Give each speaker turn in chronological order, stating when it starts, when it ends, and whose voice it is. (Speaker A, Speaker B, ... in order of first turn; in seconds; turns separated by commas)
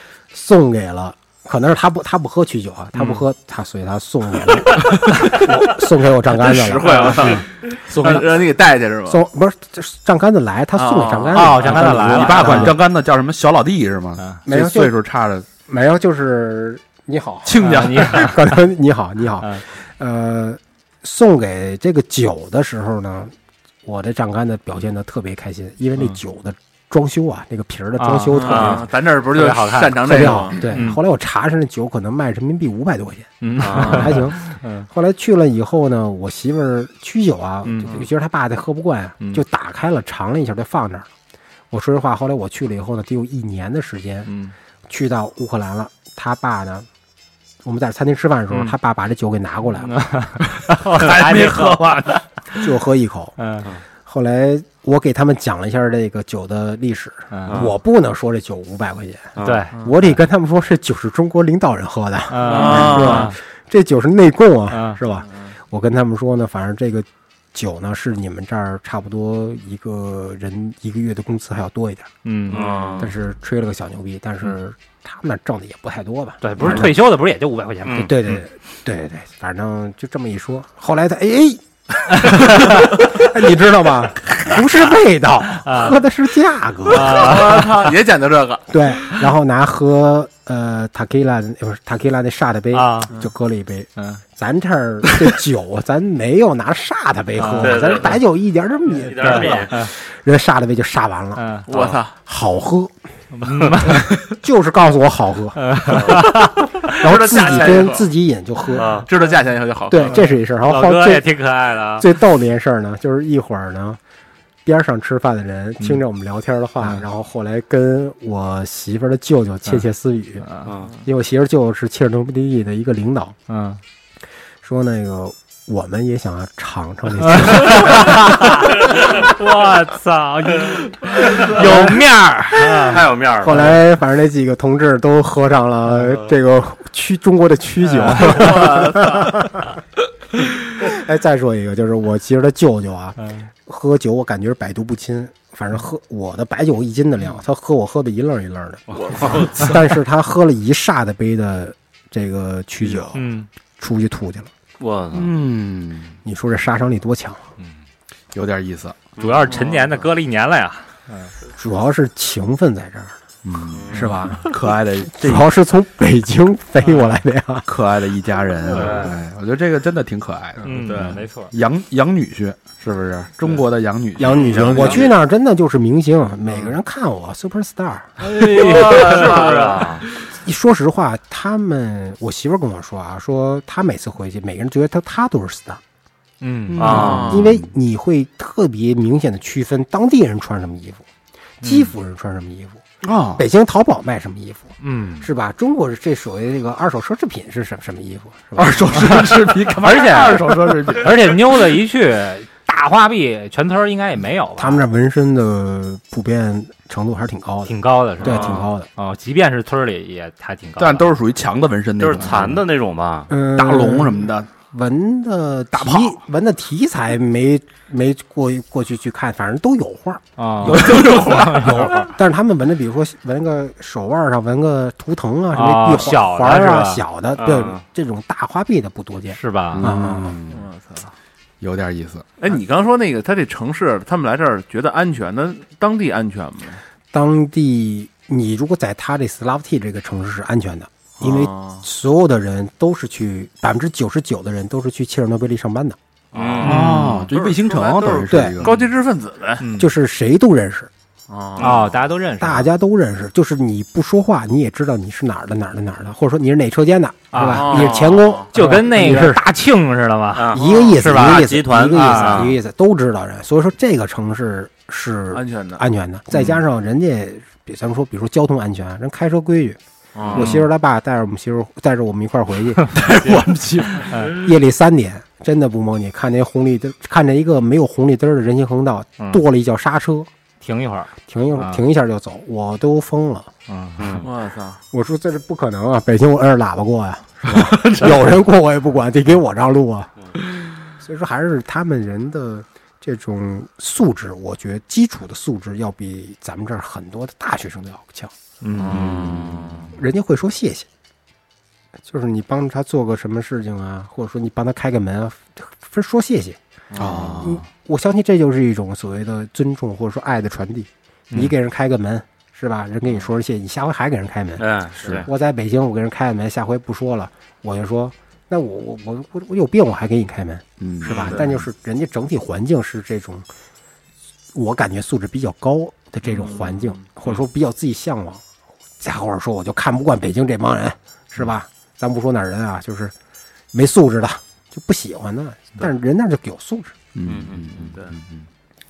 Speaker A: 0.3-7.4, Speaker B: 3.0-3.2, Speaker C: 6.3-9.2, Speaker B: 6.9-7.3, Speaker D: 7.9-8.3, Speaker A: 9.1-12.8, Speaker C: 10.8-11.5, Speaker B: 11.3-12.8, Speaker D: 11.5-15.5, Speaker A: 14.4-14.9, Speaker A: 15.7-28.9, Speaker D: 17.4-18.3, Speaker B: 17.6-18.4, Speaker B: 28.0-31.0, Speaker C: 28.3-30.7, Speaker E: 28.5-28.8, Speaker A: 30.0-41.1, Speaker B: 33.4-34.9, Speaker E: 33.6-34.1, Speaker C: 33.6-34.1, Speaker B: 37.6-38.0, Speaker A: 41.7-44.3, Speaker B: 44.2-44.5, Speaker A: 44.9-46.9, Speaker A: 47.6-50.0, Speaker B: 49.8-52.2, Speaker D: 50.5-52.2, Speaker A: 52.6-53.4, Speaker B: 53.4-53.7, Speaker A: 54.0-72.1, Speaker B: 57.3-57.7, Speaker E: 59.4-59.7, Speaker B: 59.4-59.7, Speaker C: 59.7-60.0, Speaker B: 62.3-63.4, Speaker C: 62.4-63.3, Speaker E: 62.6-63.0, Speaker B: 64.7-65.0, Speaker C: 65.1-65.5, Speaker B: 72.2-72.6, Speaker C: 72.5-72.9, Speaker E: 72.5-73.1, Speaker A: 73.0-77.0, Speaker B: 76.4-78.4, Speaker E: 77.8-78.1, Speaker A: 77.9-87.6, Speaker B: 82.2-82.8, Speaker B: 85.6-86.0, Speaker B: 86.9-87.9, Speaker C: 86.9-88.7, Speaker A: 88.7-101.6, Speaker B: 92.7-93.1, Speaker B: 97.4-97.9, Speaker E: 97.6-98.2, Speaker E: 98.9-99.8, Speaker B: 99.2-99.9, Speaker B: 101.3-101.7, Speaker C: 101.7-102.1, Speaker A: 102.2-102.9, Speaker B: 103.3-104.2, Speaker A: 103.6-106.4, Speaker B: 105.6-107.0, Speaker C: 106.9-108.1, Speaker A: 106.9-108.9, Speaker E: 108.8-109.1, Speaker C: 109.0-110.3, Speaker A: 109.9-111.3, Speaker B: 110.0-112.1, Speaker A: 112.0-114.0, Speaker A: 114.6-120.5, Speaker B: 120.4-120.7, Speaker E: 120.6-120.9, Speaker A: 121.0-123.3, Speaker B: 123.5-123.8, Speaker A: 124.6-128.7, Speaker B: 127.2-133.5, Speaker A: 131.4-132.0, Speaker E: 132.6-133.7, Speaker A: 133.4-139.7, Speaker B: 137.8-138.8, Speaker C: 138.4-139.2, Speaker A: 140.8-153.2, Speaker E: 148.9-149.8, Speaker B: 153.1-153.5, Speaker A: 153.8-154.5, Speaker E: 154.8-155.3, Speaker D: 155.1-156.2, Speaker A: 156.2-157.4, Speaker D: 158.3-159.0, Speaker E: 159.2-160.1, Speaker B: 159.2-161.3, Speaker A: 161.5-163.2, Speaker D: 163.4-165.5, Speaker E: 163.7-164.1, Speaker A: 163.9-164.5, Speaker A: 165.1-167.7, Speaker B: 166.9-167.1, Speaker D: 167.7-175.0, Speaker E: 168.7-169.1, Speaker B: 170.6-171.5, Speaker A: 174.2-178.3, Speaker E: 174.3-175.1, Speaker C: 174.3-174.9, Speaker E: 178.2-180.0, Speaker B: 178.3-179.4, Speaker C: 178.4-179.9, Speaker A: 180.3-185.8, Speaker B: 186.4-187.2, Speaker D: 186.7-187.7, Speaker E: 186.8-187.4, Speaker C: 186.9-187.5, Speaker A: 186.9-191.0, Speaker A: 191.6-192.8, Speaker B: 191.6-191.9, Speaker D: 193.0-193.4, Speaker A: 193.3-199.3, Speaker B: 194.8-195.3, Speaker D: 198.6-201.4, Speaker B: 199.1-204.8, Speaker A: 204.6-208.9, Speaker B: 207.7-211.1, Speaker E: 208.2-208.6, Speaker D: 210.8-212.6, Speaker E: 212.0-213.3, Speaker A: 213.3-230.4, Speaker D: 213.5-214.5, Speaker D: 215.7-216.2, Speaker B: 220.4-222.1, Speaker D: 220.6-221.9, Speaker B: 225.5-227.0, Speaker E: 227.4-227.8, Speaker B: 229.3-229.9, Speaker D: 229.7-230.7, Speaker C: 230.5-231.1, Speaker D: 231.6-232.2, Speaker C: 232.4-236.8, Speaker A: 237.1-246.0, Speaker C: 241.2-241.8, Speaker E: 246.3-246.8, Speaker C: 246.3-249.6, Speaker D: 246.6-248.8, Speaker B: 246.6-247.1, Speaker A: 248.3-248.6, Speaker B: 249.6-249.9, Speaker A: 249.8-250.9, Speaker C: 251.3-251.9, Speaker B: 251.6-252.7, Speaker A: 252.4-259.4, Speaker B: 257.3-262.5, Speaker C: 257.4-258.5, Speaker E: 260.3-262.6, Speaker A: 260.5-269.8, Speaker C: 260.6-260.9, Speaker C: 265.3-265.8, Speaker C: 270.1-270.5, Speaker A: 270.3-272.9, Speaker B: 270.4-270.6, Speaker D: 272.9-274.3, Speaker B: 274.0-274.4, Speaker A: 274.2-280.3, Speaker B: 280.6-281.8, Speaker A: 281.3-283.5, Speaker B: 283.7-284.2, Speaker E: 284.0-284.2, Speaker C: 284.2-284.8, Speaker A: 284.9-290.1, Speaker A: 291.0-298.3, Speaker D: 298.6-299.8, Speaker C: 298.8-299.9, Speaker E: 298.9-299.8, Speaker A: 299.9-300.9, Speaker A: 302.0-306.6, Speaker C: 306.9-307.4, Speaker D: 306.9-307.6, Speaker A: 307.4-314.7, Speaker E: 314.6-315.3, Speaker A: 315.2-323.5, Speaker D: 320.8-321.6, Speaker C: 321.1-321.4, Speaker A: 324.5-328.4, Speaker C: 326.2-327.4, Speaker A: 329.0-333.1, Speaker A: 333.7-336.9, Speaker D: 337.1-338.5, Speaker E: 337.2-337.7